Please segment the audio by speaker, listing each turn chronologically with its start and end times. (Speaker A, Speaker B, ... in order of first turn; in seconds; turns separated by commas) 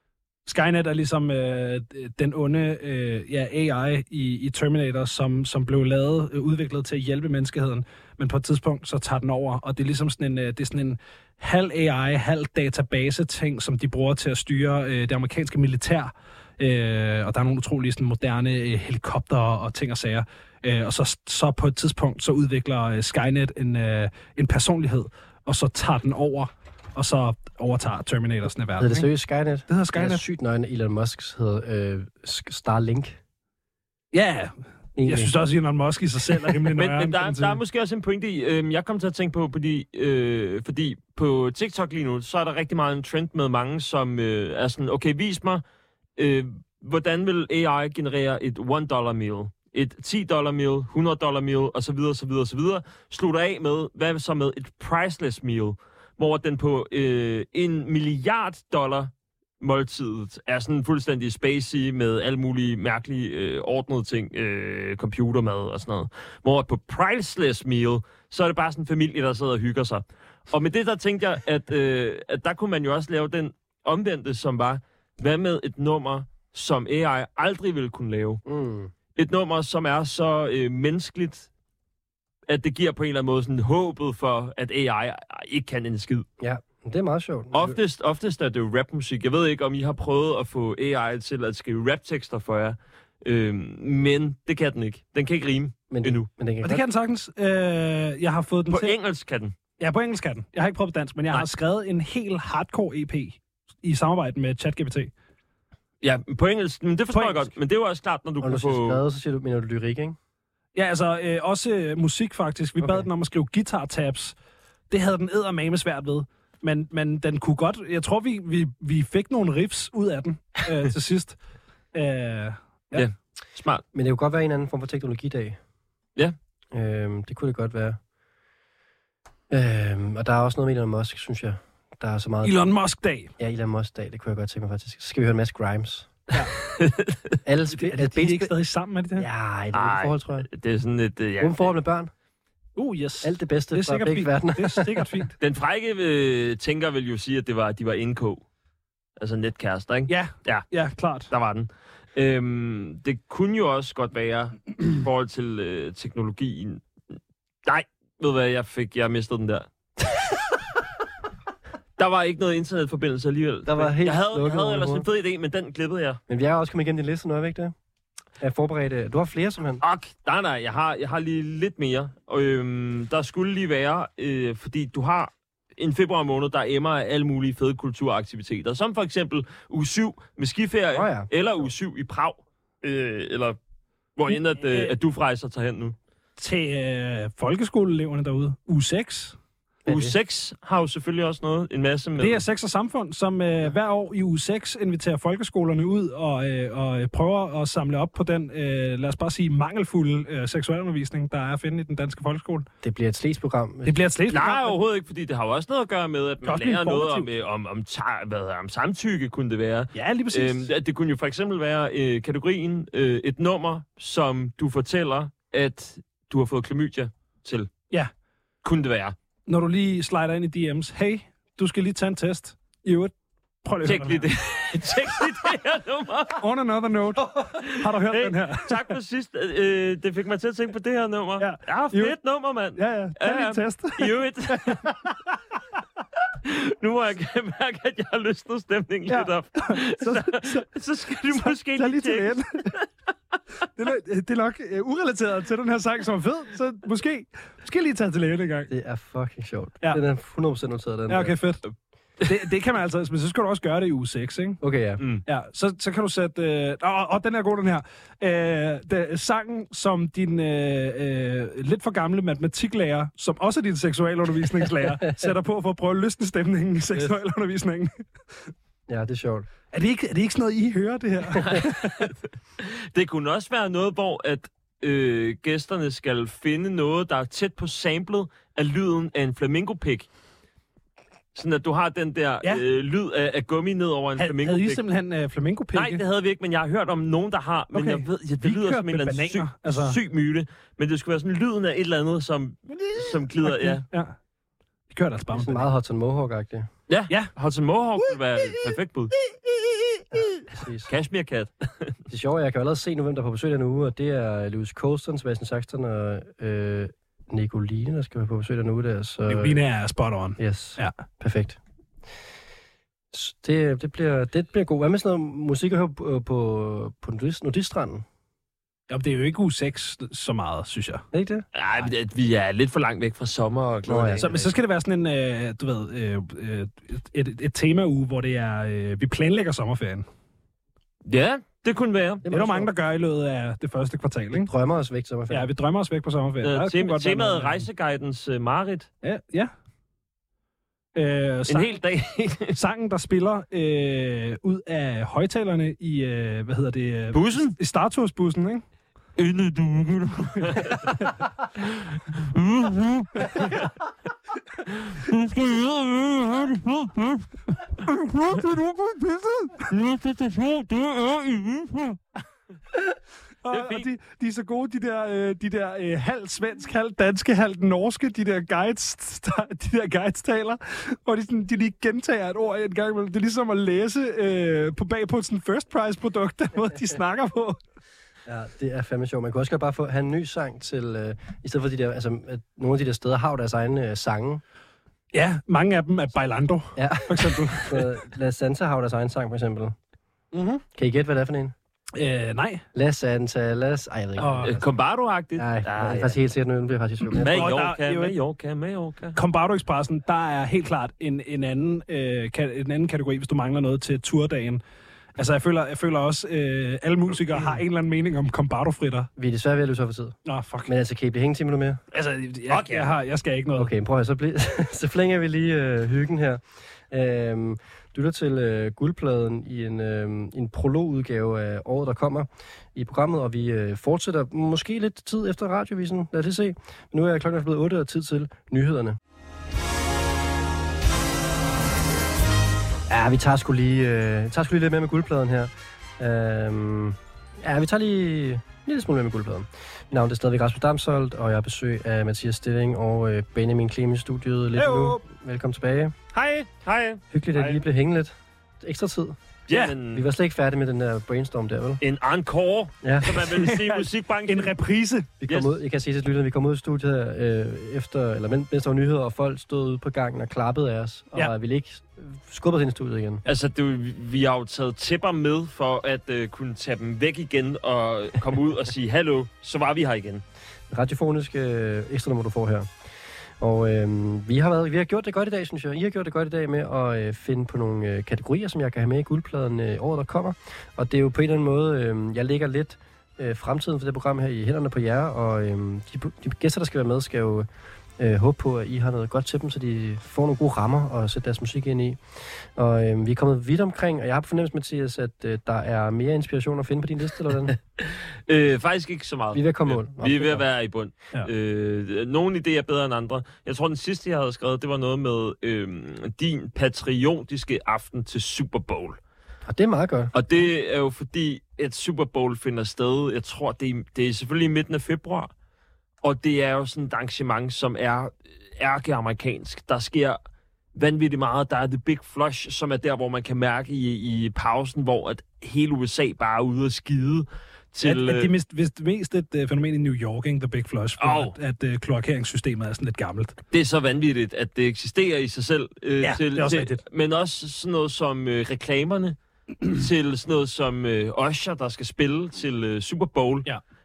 Speaker A: 0.5-29.1, Speaker B: 28.8-33.2, Speaker A: 29.7-30.2, Speaker A: 34.1-37.6, Speaker B: 35.0-35.3, Speaker C: 36.7-45.6, Speaker C: 46.2-78.4, Speaker B: 78.5-78.9, Speaker C: 79.2-81.5, Speaker C: 82.5-86.2, Speaker B: 86.4-87.8, Speaker C: 87.5-96.3, Speaker B: 95.9-96.8, Speaker A: 96.6-98.9, Speaker C: 98.7-99.5, Speaker A: 99.8-105.1, Speaker C: 106.0-109.0, Speaker A: 107.1-107.5, Speaker B: 108.4-110.2, Speaker A: 110.7-114.3, Speaker B: 112.8-113.0, Speaker A: 114.9-121.4, Speaker A: 121.9-123.0, Speaker C: 122.9-123.8, Speaker B: 123.9-125.6, Speaker B: 126.7-128.0, Speaker B: 129.5-132.6, Speaker A: 132.4-133.3, Speaker B: 133.4-136.3, Speaker C: 136.8-137.4, Speaker B: 137.4-138.5, Speaker A: 137.7-139.3, Speaker B: 139.2-140.5, Speaker C: 139.7-141.7, Speaker B: 141.4-142.1, Speaker A: 142.8-145.3, Speaker B: 143.2-145.1, Speaker C: 145.4-148.4, Speaker C: 149.2-150.7, Speaker A: 150.1-151.3, Speaker C: 151.3-156.8, Speaker C: 157.6-159.7, Speaker C: 162.0-166.2, Speaker B: 163.7-165.1, Speaker B: 166.3-167.7, Speaker B: 168.4-169.8, Speaker C: 169.8-183.6, Speaker B: 180.9-181.3, Speaker C: 184.2-185.9, Speaker A: 186.4-189.4, Speaker B: 189.8-190.1, Speaker C: 189.9-192.4, Speaker A: 192.2-202.7, Speaker B: 202.8-204.0, Speaker A: 203.8-204.8, Speaker C: 204.3-217.7, Speaker A: 206.4-207.3, Speaker A: 209.9-210.7, Speaker C: 218.6-219.1, Speaker A: 219.5-224.3, Speaker C: 223.8-226.4, Speaker A: 226.4-228.8, Speaker C: 227.3-234.9, Speaker A: 231.4-232.1, Speaker A: 232.8-235.2, Speaker C: 236.4-242.8, Speaker A: 239.1-240.7, Speaker A: 241.3-242.7, Speaker A: 243.8-248.7, Speaker B: 248.7-251.3, Speaker A: 251.1-251.6, Speaker A: 252.2-254.6, Speaker B: 254.6-255.0, Speaker A: 255.2-267.9, Speaker B: 268.9-269.5, Speaker A: 269.7-272.1, Speaker C: 271.4-280.1, Speaker C: 281.3-284.8, Speaker A: 284.2-286.0, Speaker C: 285.7-293.8, Speaker A: 287.7-290.0, Speaker A: 292.8-294.1, Speaker A: 294.9-295.6, Speaker B: 295.3-296.7, Speaker C: 296.9-299.1, Speaker B: 300.1-300.9, Speaker C: 300.9-301.9, Speaker B: 302.1-309.6, Speaker A: 309.3-310.9, Speaker B: 310.4-311.6, Speaker B: 313.1-318.0, Speaker A: 318.9-321.1, Speaker B: 321.1-321.5, Speaker C: 321.5-324.3, Speaker B: 323.9-324.5, Speaker A: 324.2-330.1, Speaker C: 331.0-332.2, Speaker B: 332.2-332.7, Speaker A: 332.3-334.5, Speaker B: 334.3-335.5, Speaker A: 335.3-337.6, Speaker C: 336.4-338.9, Speaker A: 339.0-339.5, Speaker A: 340.9-341.7, Speaker C: 341.5-342.6, Speaker A: 342.5-348.6, Speaker C: 347.1-347.6, Speaker C: 349.2-353.7, Speaker A: 350.3-351.1, Speaker A: 353.2-353.5, Speaker C: 354.6-357.2, Speaker A: 357.8-359.7, Speaker C: 359.7-361.9, Speaker A: 363.4-377.6, Speaker C: 363.5-363.9, Speaker B: 378.2-384.4, Speaker A: 385.1-387.9, Speaker B: 386.8-389.7, Speaker A: 390.3-390.6, Speaker B: 390.7-391.5, Speaker A: 391.9-392.6, Speaker B: 392.7-394.7, Speaker A: 394.2-394.6, Speaker C: 394.4-396.1, Speaker B: 395.4-397.5, Speaker A: 397.2-398.1, Speaker C: 397.2-399.2, Speaker A: 399.1-404.6, Speaker A: 405.2-409.1, Speaker B: 409.1-411.8, Speaker A: 410.2-410.7, Speaker A: 411.9-413.7, Speaker C: 412.5-412.9, Speaker B: 413.5-429.0, Speaker B: 432.9-445.9, Speaker A: 444.6-445.0, Speaker C: 446.1-447.6, Speaker B: 447.1-449.2, Speaker C: 449.5-450.1, Speaker B: 449.9-451.8, Speaker C: 451.8-454.5, Speaker B: 452.8-453.2, Speaker A: 453.1-455.1, Speaker B: 455.2-463.2, Speaker C: 463.2-470.2, Speaker B: 470.7-472.7, Speaker B: 473.4-497.6, Speaker C: 497.8-509.0, Speaker B: 499.3-500.4, Speaker B: 509.4-510.1, Speaker C: 510.1-515.3, Speaker C: 516.0-520.2, Speaker C: 520.7-528.3, Speaker A: 527.8-533.4, Speaker C: 531.0-531.3, Speaker C: 533.5-543.5, Speaker A: 536.0-536.8